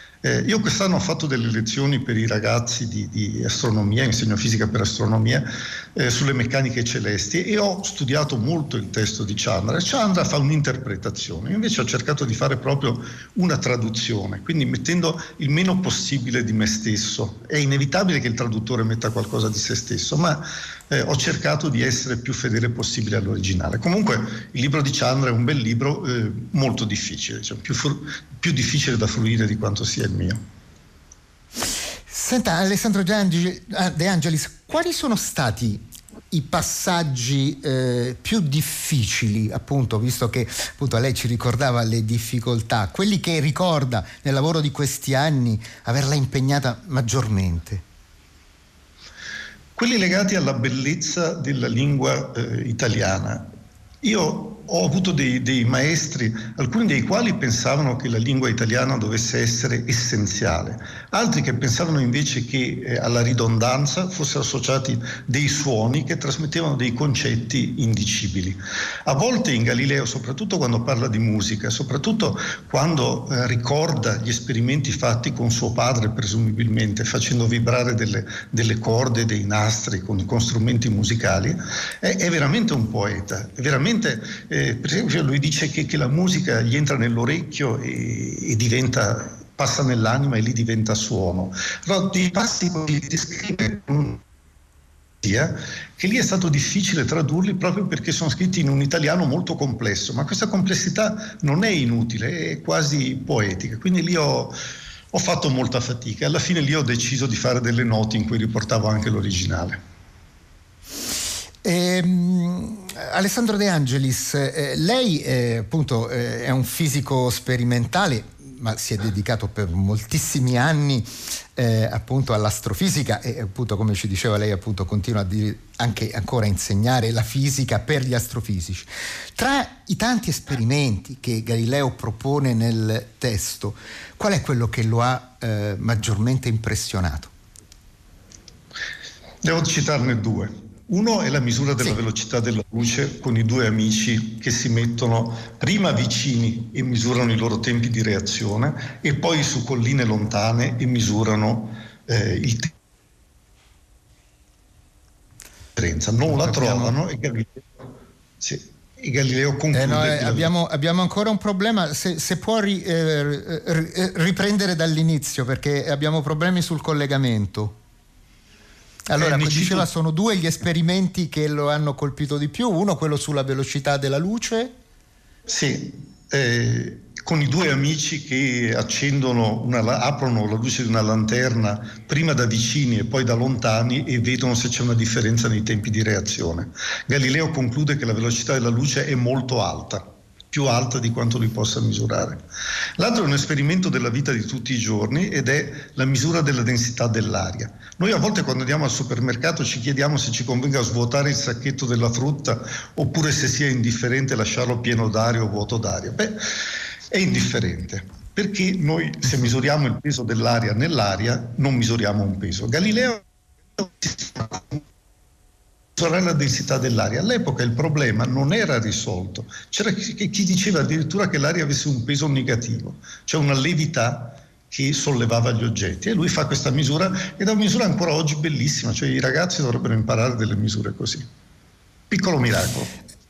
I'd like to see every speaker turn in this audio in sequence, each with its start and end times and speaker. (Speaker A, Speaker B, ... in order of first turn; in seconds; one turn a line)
Speaker A: 0.2-30.4
Speaker B: 32.1-47.8
Speaker A: 49.8-53.5
Speaker A: 54.0-94.2
Speaker A: 95.2-104.5
Speaker A: 105.1-109.8
Speaker B: 111.6-137.3
Speaker A: 139.4-152.7
Speaker A: 155.8-157.8
Speaker B: 156.3-157.0
Speaker A: 158.4-160.5
Speaker B: 159.7-167.8
Speaker B: 169.1-174.7
Speaker A: 169.2-169.9
Speaker A: 175.5-192.4
Speaker A: 193.0-206.6
Speaker A: 207.1-213.2
Speaker A: 213.8-214.8
Speaker A: 216.0-231.3
Speaker A: 232.1-233.0